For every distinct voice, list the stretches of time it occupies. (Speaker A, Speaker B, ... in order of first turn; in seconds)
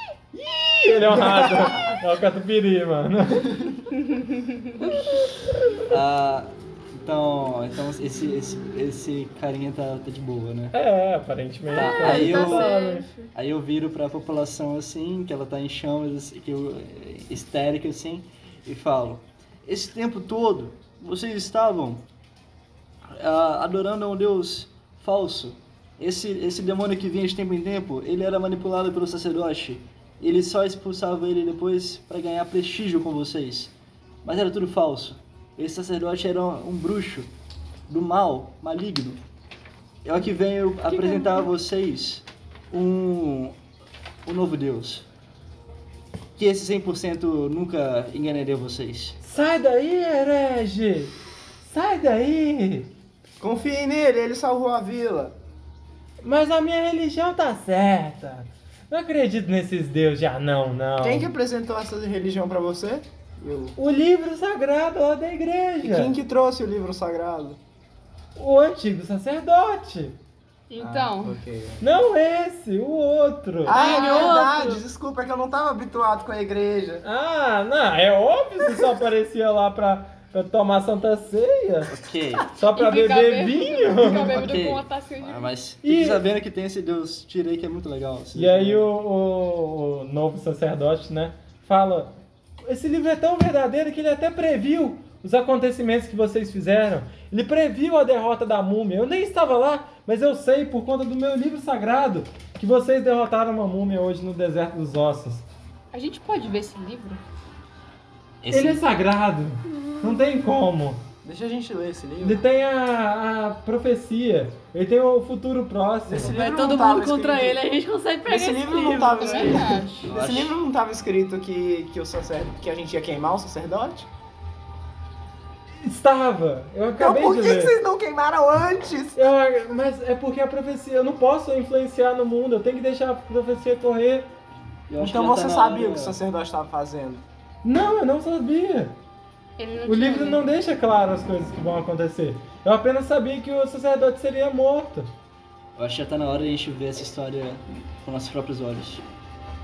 Speaker A: 0.3-3.7, 5.0-5.9, 10.7-13.1, 49.2-52.9, 56.2-61.3, 63.8-66.2, 68.4-70.2, 71.8-74.1, 77.0-82.0, 82.5-84.5, 85.8-86.2, 88.3-92.1, 92.7-105.5, 108.5-111.0, 112.2-116.4, 125.8-127.8, 129.2-134.3, 137.6-139.0, 139.9-145.1
Speaker B: 1.4-1.7, 53.4-55.4, 61.0-63.8, 65.8-67.6, 70.8-71.8, 73.6-77.0, 111.2-112.4, 116.1-117.6, 118.3-124.1, 127.0-129.2, 135.0-137.2
Speaker C: 4.0-5.0, 70.7-71.4, 82.7-85.5, 105.9-107.2, 119.2-120.0, 139.6-140.4
Speaker D: 5.9-10.8, 11.7-12.7, 13.3-22.1, 23.1-37.3, 37.9-39.2, 40.0-43.6, 44.2-45.0, 46.4-49.2, 81.9-82.5, 84.1-88.9, 108.4-108.8, 120.0-120.5, 134.9-136.2, 145.8-149.0
Speaker E: 11.8-13.3, 40.9-41.5, 73.7-74.8, 109.7-110.3, 116.2-120.1